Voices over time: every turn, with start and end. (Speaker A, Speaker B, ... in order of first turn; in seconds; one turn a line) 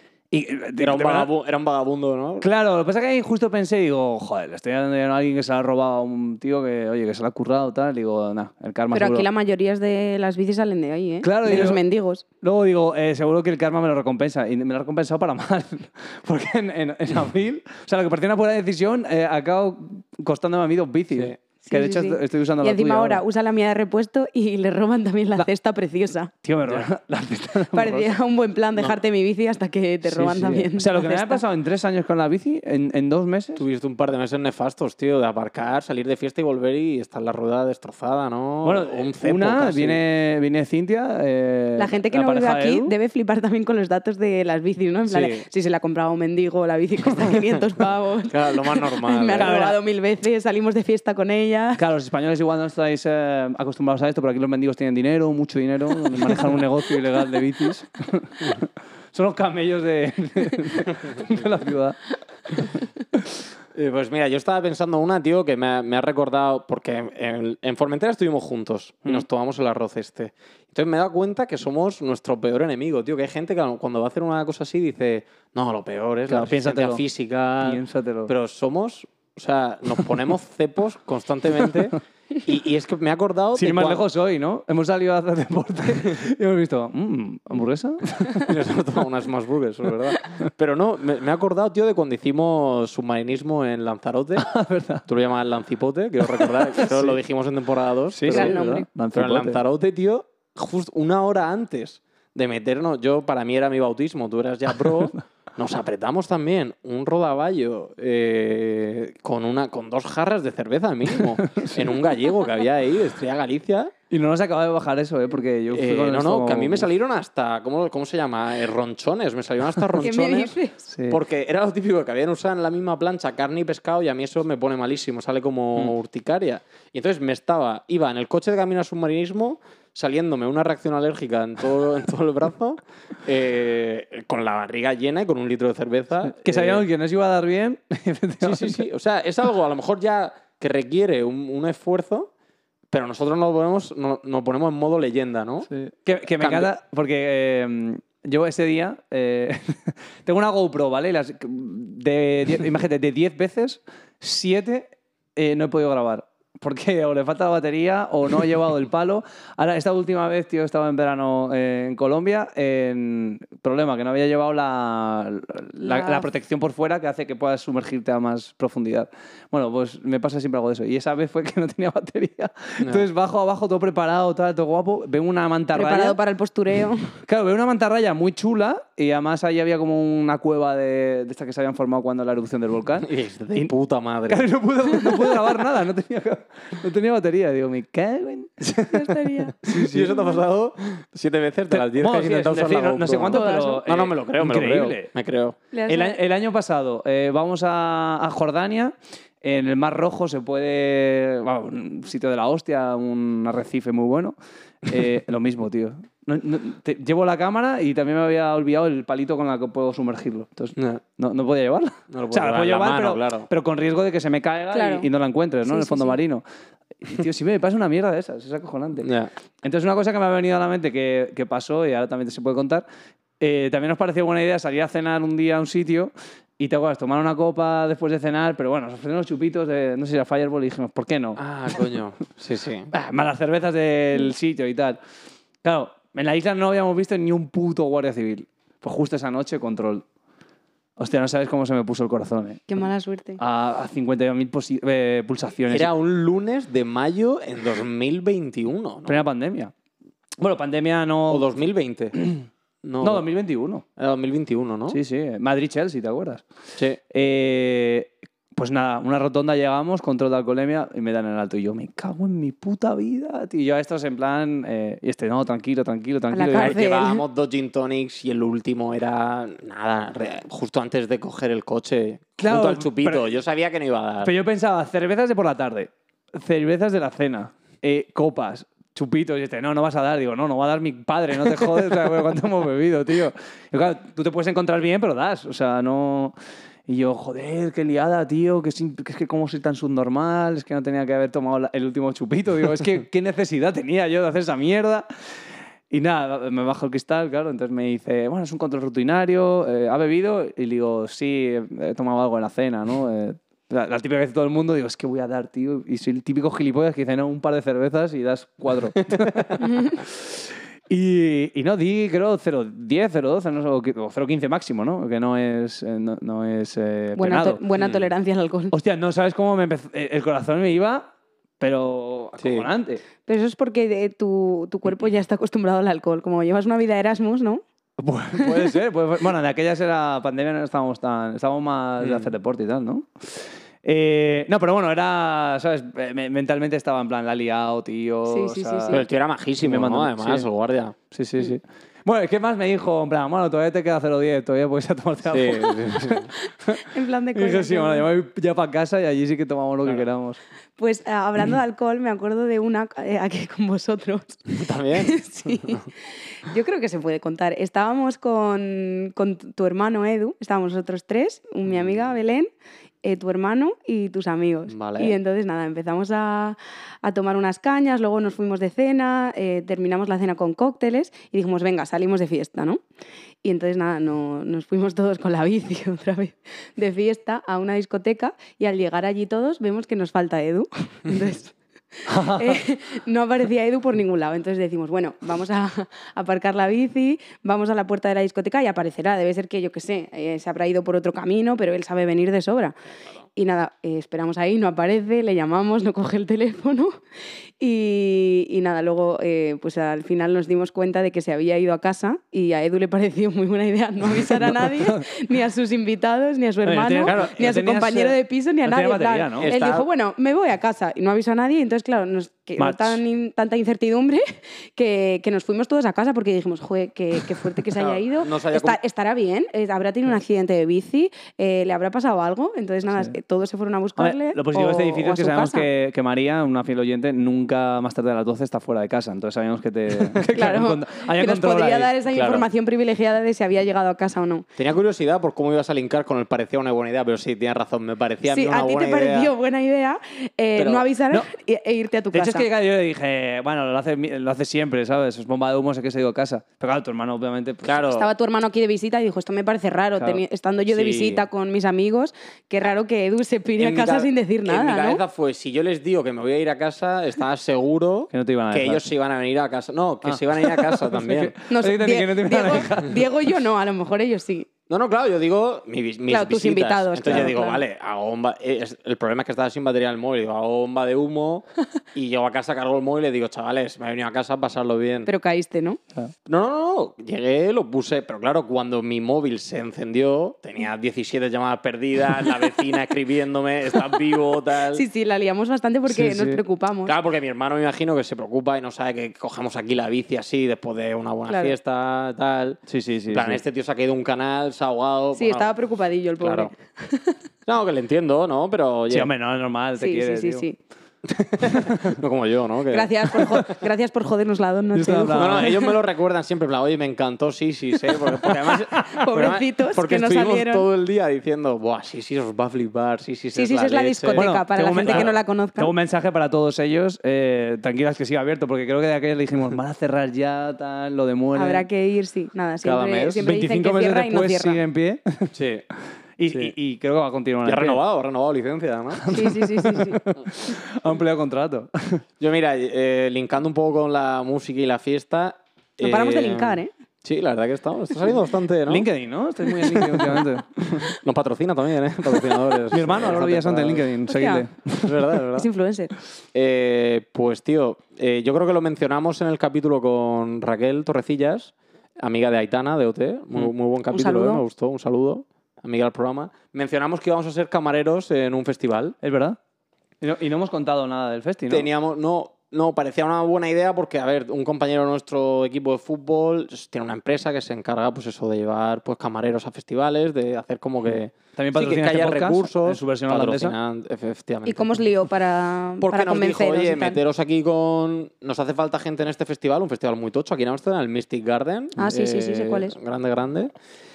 Speaker A: 0.3-1.3
Speaker B: 0.8-2.5
Speaker A: 2.4-9.3
Speaker C: 8.9-12.2
Speaker A: 11.2-11.8
Speaker A: 12.4-23.2
Speaker C: 21.6-26.3
Speaker A: 26.4-28.1
Speaker C: 27.7-31.4
Speaker A: 30.0-33.6
Speaker B: 33.5-40.0
Speaker A: 38.6-42.9
Speaker C: 41.8-51.8
Speaker B: 45.1-45.4
Speaker B: 48.3-49.5
Speaker A: 49.3-49.8
Speaker A: 51.8-63.3
Speaker B: 63.7-84.0
Speaker A: 76.3-77.0
Speaker A: 77.6-78.3
Speaker A: 83.5-88.5
Speaker B: 88.4-94.5
Speaker A: 94.4-95.0
Speaker B: 95.1-98.6
Speaker A: 96.3-97.2
Speaker A: 98.1-99.6
Speaker C: 98.3-98.9
Speaker B: 99.1-113.9
Speaker A: 111.4-111.9
Speaker A: 114.1-116.9
Speaker B: 115.7-120.5
Speaker C: 120.0-120.8
Speaker A: 120.9-121.2
Speaker B: 121.1-136.8
Speaker A: 136.4-138.8
Speaker B: 138.4-142.3
Speaker B: 142.9-145.7
Speaker A: 145.7-176.2
Speaker B: 146.4-146.7
Speaker C: 165.8-166.2
Speaker B: 172.8-173.1
Speaker C: 175.7-177.1
Speaker A: 177.2-183.7
Speaker B: 183.0-184.5
Speaker A: 184.3-190.2
Speaker C: 188.9-189.5
Speaker B: 189.7-195.6
Speaker A: 191.7-195.1
Speaker C: 193.3-193.8
Speaker C: 195.7-196.2
Speaker A: 195.9-216.4
Speaker B: 210.8-211.0
Speaker B: 212.1-213.5
Speaker C: 214.7-215.1
Speaker C: 215.7-216.2
Speaker A: 217.0-219.1
Speaker B: 219.0-219.3
Speaker A: 219.6-222.8
Speaker A: 223.4-231.4
Speaker B: 231.4-232.9
Speaker A: 232.9-235.0
Speaker A: 235.6-240.0
Speaker A: 241.0-242.8
Speaker C: 242.7-243.4
Speaker A: 243.4-245.9
Speaker B: 245.7-249.2
Speaker A: 249.1-249.7
Speaker A: 250.4-251.5
Speaker B: 251.3-252.1
Speaker A: 252.2-252.4
Speaker B: 252.8-253.2
Speaker A: 253.0-253.8
Speaker B: 254.0-255.0
Speaker A: 254.9-256.4
Speaker A: 257.1-266.8
Speaker C: 266.3-267.2
Speaker B: 266.5-274.3
Speaker A: 272.4-273.2
Speaker A: 274.2-286.3
Speaker A: 286.9-295.1
Speaker A: 295.9-317.6
Speaker C: 309.6-310.0
Speaker C: 317.1-318.7
Speaker B: 317.8-318.1
Speaker A: 318.7-323.0
Speaker B: 322.4-322.7
Speaker C: 323.2-327.6
Speaker A: 328.0-339.0
Speaker C: 328.4-328.6
Speaker B: 332.0-332.3
Speaker C: 338.3-339.0
Speaker B: 338.9-340.9
Speaker A: 339.6-340.5
Speaker A: 341.1-346.8
Speaker B: 345.3-346.3
Speaker C: 346.7-348.1
Speaker A: 347.3-350.4
Speaker C: 350.8-355.9
Speaker B: 354.5-355.8
Speaker C: 356.4-362.5
Speaker C: 363.0-372.8
Speaker B: 364.7-365.1
Speaker C: 373.4-392.8
Speaker A: 382.1-382.6
Speaker C: 393.4-396.9
Speaker C: 397.6-425.7
Speaker A: 404.3-405.0
Speaker A: 406.6-409.5
Speaker B: 407.0-407.4
Speaker B: 409.4-409.9
Speaker A: 412.6-413.0
Speaker B: 417.7-418.8
Speaker A: 424.0-431.9
Speaker C: 430.2-434.4
Speaker B: 432.1-432.5
Speaker B: 434.6-439.3
Speaker C: 438.3-442.4
Speaker B: 440.6-440.9
Speaker A: 442.1-447.8
Speaker B: 447.6-448.1
Speaker C: 447.9-455.0
Speaker B: 450.7-451.2
Speaker B: 453.6-461.3
Speaker A: 458.1-458.8
Speaker A: 460.0-463.3
Speaker C: 461.5-464.5
Speaker B: 464.7-475.1
Speaker C: 466.1-467.6
Speaker C: 475.1-475.8
Speaker B: 476.2-484.8
Speaker C: 484.7-486.9
Speaker A: 485.9-486.4
Speaker B: 486.9-495.5
Speaker C: 491.3-491.5
Speaker A: 492.7-493.4
Speaker C: 495.1-497.2
Speaker B: 496.2-496.5
Speaker B: 497.4-499.1
Speaker A: 498.9-500.4
Speaker C: 499.8-500.6
Speaker B: 501.1-503.2
Speaker A: 501.4-502.0
Speaker C: 502.7-505.7
Speaker A: 504.7-505.6
Speaker B: 505.1-514.2
Speaker C: 508.8-510.6
Speaker C: 513.3-515.7
Speaker A: 514.1-521.6
Speaker B: 514.8-515.1
Speaker C: 521.3-524.6
Speaker B: 522.6-523.2
Speaker A: 523.2-525.4
Speaker B: 525.3-525.6
Speaker A: 526.2-527.8
Speaker B: 527.4-529.1
Speaker A: 529.0-532.0
Speaker C: 529.1-530.0
Speaker B: 532.2-538.9
Speaker C: 535.8-536.7
Speaker A: 538.7-540.9
Speaker B: 539.6-540.2
Speaker B: 541.0-543.9
Speaker A: 542.7-545.0
Speaker C: 544.1-544.5
Speaker B: 544.8-545.5
Speaker C: 545.4-545.9
Speaker B: 546.3-559.0
Speaker C: 553.9-554.4
Speaker A: 559.0-559.4
Speaker A: 560.0-561.7
Speaker B: 561.5-574.8
Speaker A: 571.4-573.5
Speaker C: 574.5-577.0
Speaker B: 575.8-583.5
Speaker C: 581.8-582.8